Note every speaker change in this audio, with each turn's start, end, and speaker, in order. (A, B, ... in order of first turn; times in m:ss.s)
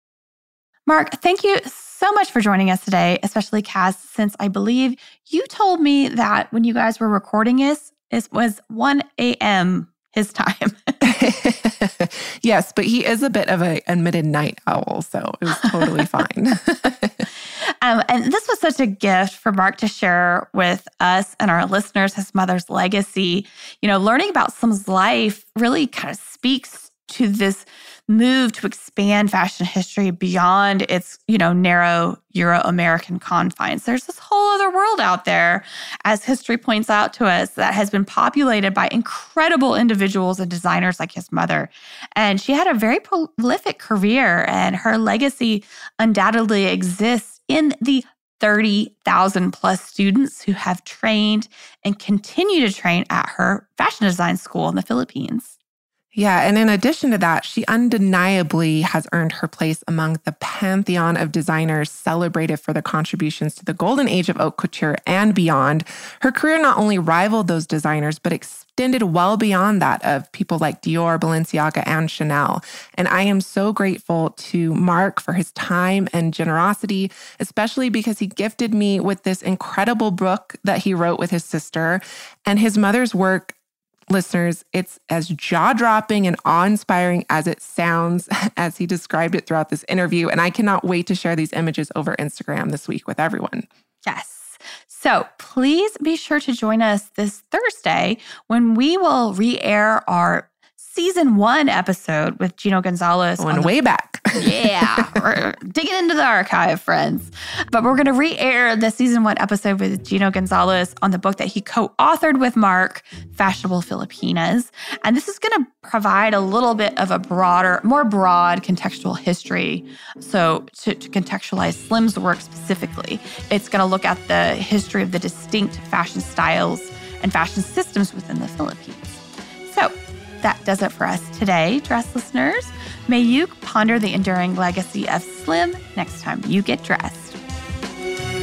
0:00.8-0:11.0 A
0:11.0-0:17.3 B
0:17.6-0:55.6 A
0:56.1-1:23.5 B
1:24.1-1:33.7 B
1:34.0-1:43.7 A
1:43.4-1:45.2 B
1:44.4-2:17.4 A